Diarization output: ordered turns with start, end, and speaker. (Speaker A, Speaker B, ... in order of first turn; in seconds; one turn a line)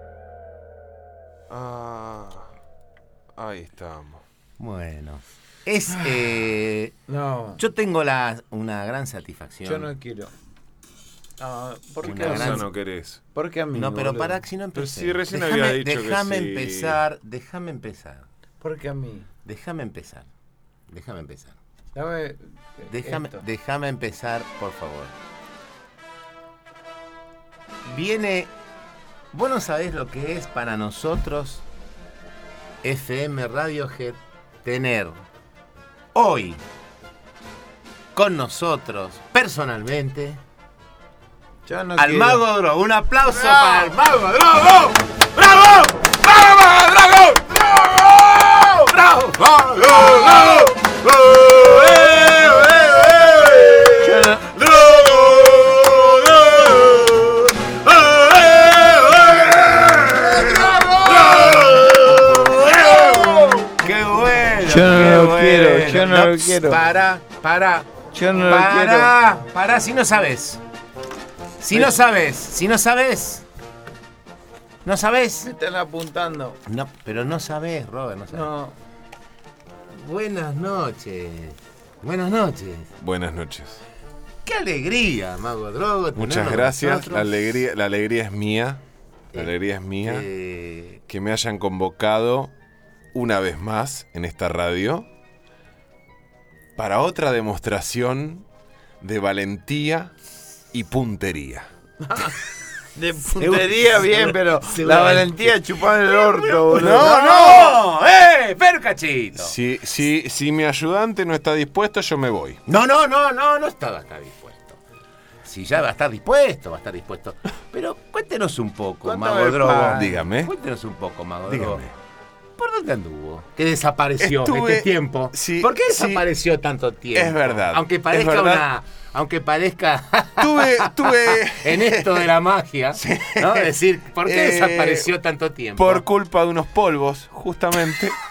Speaker A: 1.5-2.5
Speaker A: 3.4-4.2
Speaker B: 4.6-6.9
Speaker C: 7.1-7.6
Speaker B: 7.6-9.9
Speaker C: 9.6-10.3
Speaker C: 11.4-12.6
Speaker B: 12.0-12.7
Speaker A: 12.1-13.2
Speaker C: 13.3-14.4
Speaker B: 13.7-18.2
Speaker A: 14.7-17.0
Speaker C: 18.6-19.2
Speaker B: 19.4-20.3
Speaker B: 20.9-21.6
Speaker C: 21.9-23.4
Speaker B: 22.9-25.1
Speaker B: 27.8-28.5
Speaker B: 29.3-31.6
Speaker B: 32.8-35.2
Speaker B: 36.1-36.6
Speaker B: 38.1-40.4
Speaker C: 41.6-42.4
Speaker B: 42.0-46.2
Speaker A: 43.3-44.0
Speaker A: 46.2-48.8
Speaker B: 48.7-50.8
Speaker A: 49.4-63.6
Speaker C: 54.0-54.5
Speaker B: 60.3-60.5
Speaker B: 61.1-70.6
Speaker C: 61.4-61.8
Speaker C: 64.6-66.8
Speaker C: 68.1-69.1
Speaker B: 71.6-73.4
Speaker B: 74.8-75.5
Speaker C: 75.4-76.6
Speaker B: 76.7-78.5
Speaker C: 78.3-78.7
Speaker B: 79.9-82.9
Speaker A: 83.0-83.8
Speaker B: 84.4-87.4
Speaker A: 86.2-88.8
Speaker B: 89.3-91.0
Speaker A: 89.3-90.2
Speaker A: 91.1-92.5
Speaker A: 93.1-95.1
Speaker A: 96.8-98.4
Speaker A: 99.0-100.1
Speaker A: 100.7-101.7
Speaker C: 102.9-107.8
Speaker B: 103.3-105.5
Speaker B: 106.0-109.5
Speaker A: 106.7-107.8
Speaker A: 109.3-112.6
Speaker B: 112.7-114.8
Speaker B: 115.4-121.8
Speaker C: 119.0-120.2
Speaker A: 119.7-120.5
Speaker A: 121.5-121.9
Speaker B: 122.6-136.0
Speaker A: 124.2-126.2
Speaker A: 127.1-128.6
Speaker A: 130.4-132.3
Speaker A: 132.9-135.1
Speaker A: 135.8-138.2